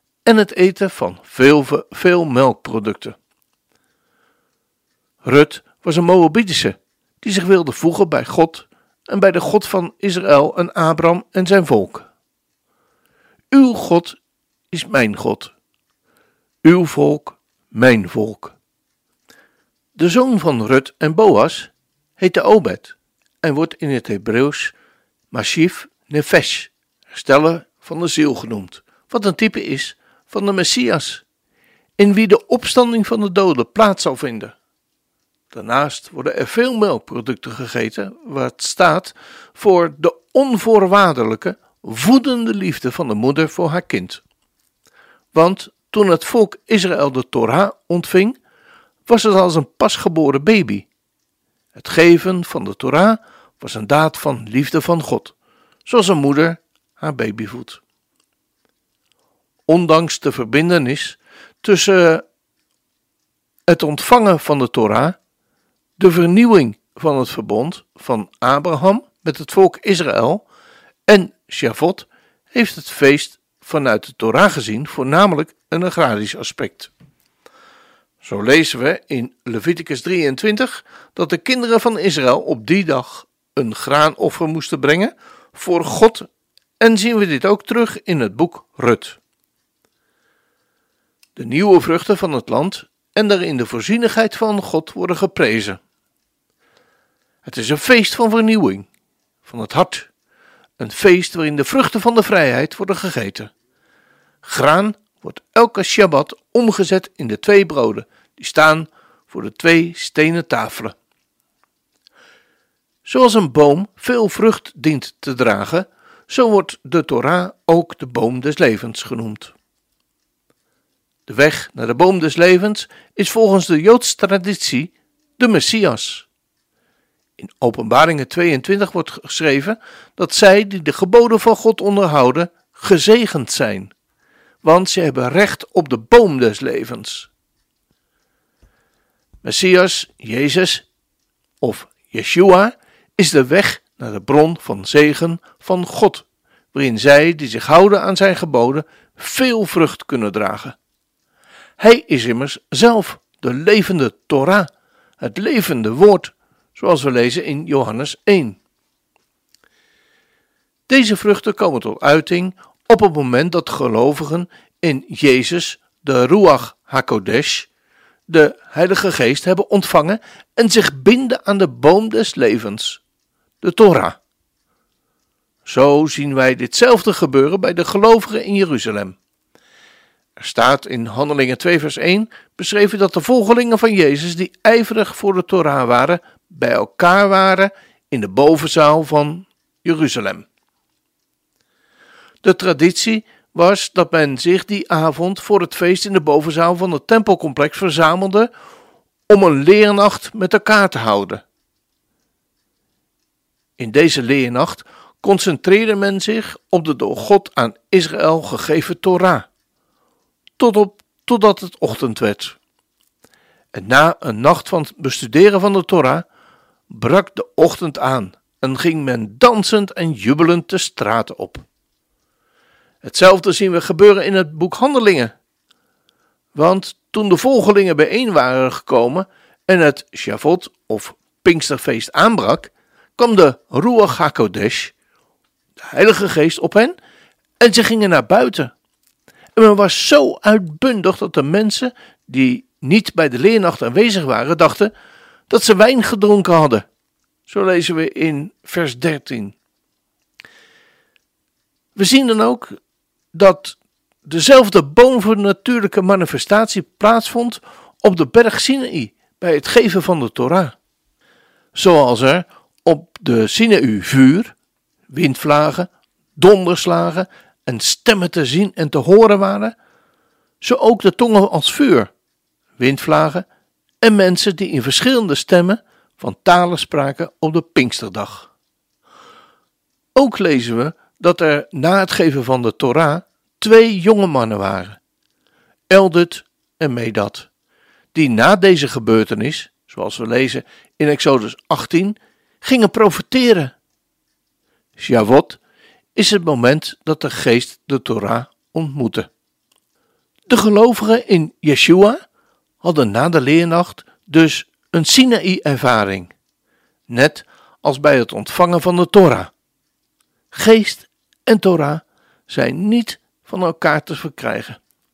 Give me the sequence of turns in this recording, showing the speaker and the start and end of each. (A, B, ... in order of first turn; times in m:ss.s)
0:00.2-0:03.2 A
0:05.2-0:12.1 A
0:13.5-0:14.2 A
0:14.7-0:15.5 A
0:16.6-0:18.6 A
0:20.0-0:24.7 A
0:25.3-0:31.2 A
0:32.0-0:34.6 A
0:35.5-0:44.2 A
0:45.3-0:48.4 A
0:49.1-0:50.9 A
0:51.8-0:57.8 A
0:59.7-1:02.2 A
1:03.7-1:05.2 A
1:06.0-1:10.5 A
1:11.1-1:16.9 A
1:18.2-1:29.2 A
1:31.4-1:35.8 A
1:37.4-1:38.9 A
1:39.4-1:40.1 A
1:40.8-1:43.5 A
1:44.4-1:51.0 A
1:53.0-1:59.5 A
2:01.3-2:06.3 A
2:07.4-2:13.9 A
2:14.6-2:17.3 A
2:19.4-2:20.9 A
2:21.6-2:30.8 A
2:31.8-2:38.6 A
2:40.9-2:47.7 A
2:48.3-2:53.0 A
2:53.6-2:54.2 A
2:55.6-2:59.2 A
3:00.4-3:10.5 A
3:12.4-3:18.5 A
3:19.3-3:21.4 A
3:23.8-3:29.5 A
3:30.6-3:32.6 A
3:33.7-3:36.3 A
3:36.9-3:41.7 A
3:43.0-3:45.4 A
3:46.5-3:55.0 A
3:55.8-3:57.0 A
3:57.6-3:58.7 A
3:59.6-4:04.9 A
4:05.5-4:06.9 A
4:07.5-4:09.6 A
4:12.0-4:12.8 A
4:13.3-4:20.8 A
4:21.8-4:24.6 A
4:25.1-4:29.8 A
4:30.6-4:32.1 A
4:32.8-4:33.5 A
4:34.0-4:38.5 A
4:40.2-4:45.0 A
4:45.9-4:47.5 A
4:48.1-4:53.8 A
4:55.0-4:55.6 A
4:56.2-4:59.3 A
5:00.5-5:02.2 A
5:02.8-5:06.3 A
5:07.1-5:09.5 A
5:10.5-5:14.8 A